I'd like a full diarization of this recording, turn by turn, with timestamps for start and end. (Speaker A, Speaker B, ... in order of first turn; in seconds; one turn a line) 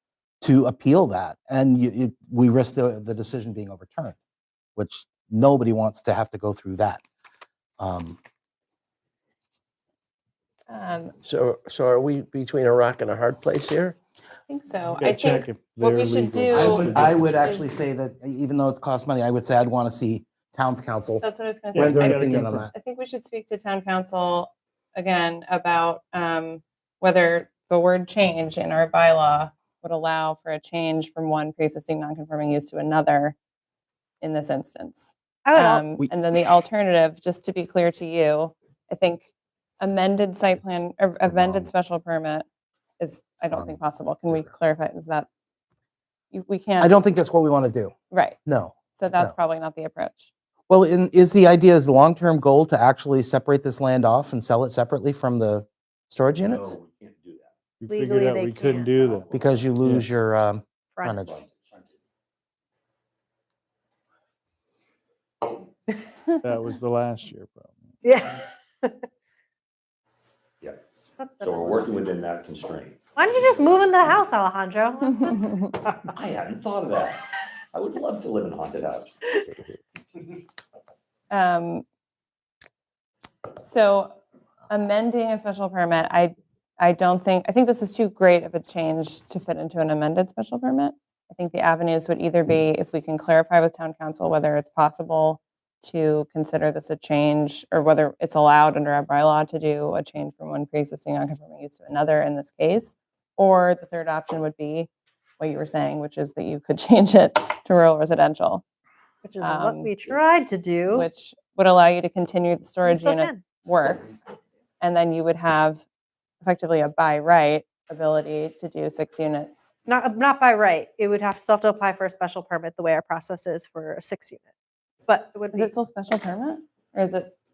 Speaker A: 0.4-4.2
Speaker A: 4.8-7.0
Speaker A: 7.8-8.2
Speaker B: 10.7-11.1
Speaker C: 11.2-13.9
Speaker B: 14.5-17.7
Speaker D: 15.0-17.5
Speaker A: 16.5-21.2
Speaker B: 21.2-33.4
Speaker D: 21.7-22.7
Speaker A: 21.7-22.7
Speaker B: 34.2-39.3
Speaker E: 35.4-35.9
Speaker B: 39.8-42.5
Speaker A: 40.6-41.7
Speaker B: 43.0-45.3
Speaker A: 43.4-44.5
Speaker B: 46.3-47.2
Speaker A: 46.8-47.9
Speaker B: 48.1-48.4
Speaker A: 48.4-49.3
Speaker B: 48.9-50.3
Speaker A: 50.7-56.8
Speaker F: 56.4-57.5
Speaker D: 57.8-60.1
Speaker E: 57.9-59.1
Speaker F: 59.1-59.7
Speaker A: 59.3-61.4
Speaker F: 61.2-62.0
Speaker D: 66.4-68.0
Speaker E: 68.0-69.0
Speaker E: 71.2-72.2
Speaker F: 71.4-73.5
Speaker E: 73.2-75.6
Speaker B: 75.0-75.8
Speaker F: 76.1-79.1
Speaker B: 81.3-81.8
Speaker B: 83.6-84.2
Speaker B: 84.7-104.9
Speaker B: 105.4-108.6
Speaker E: 109.2-111.0
Speaker B: 109.4-109.9
Speaker B: 110.9-114.1
Speaker E: 112.8-113.4
Speaker B: 114.8-115.8
Speaker B: 116.4-119.7
Speaker E: 119.9-124.5
Speaker E: 125.1-125.7
Speaker B: 125.5-127.3